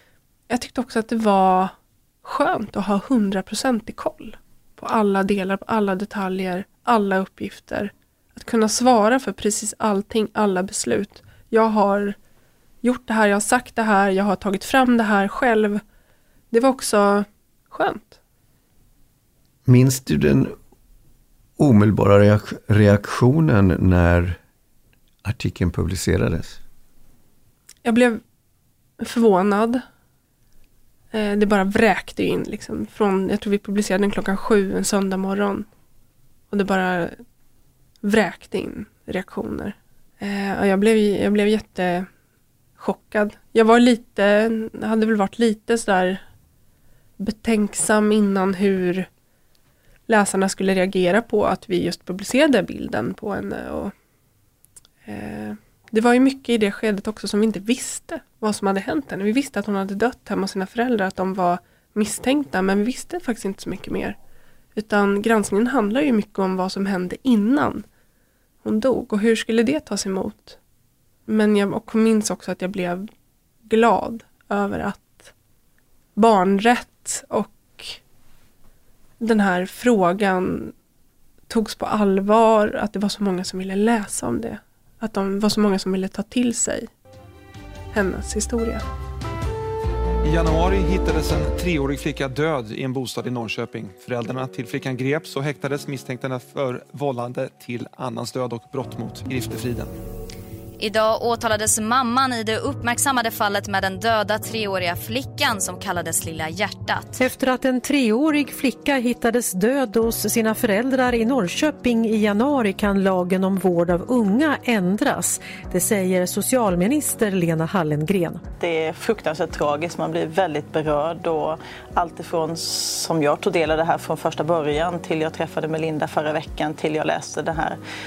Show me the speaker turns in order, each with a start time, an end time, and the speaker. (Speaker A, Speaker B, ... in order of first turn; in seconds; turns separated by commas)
Speaker A: 0.5-12.2, Speaker A: 12.8-15.8, Speaker A: 16.5-18.2, Speaker B: 19.7-20.6, Speaker B: 21.6-24.4, Speaker B: 25.2-26.6, Speaker A: 27.9-28.2, Speaker A: 29.0-29.8, Speaker A: 31.1-35.7, Speaker A: 36.5-37.2, Speaker A: 38.0-42.1, Speaker A: 42.8-46.2, Speaker A: 47.2-49.1, Speaker A: 50.1-53.9, Speaker A: 55.1-64.2, Speaker A: 64.8-67.8, Speaker A: 68.6-70.6, Speaker A: 71.3-73.1, Speaker A: 73.7-75.3, Speaker A: 76.2-78.0, Speaker A: 79.2-80.7, Speaker A: 81.5-86.9, Speaker A: 87.9-88.8, Speaker C: 90.2-99.9, Speaker D: 100.8-107.2, Speaker E: 107.2-118.4, Speaker F: 118.6-127.8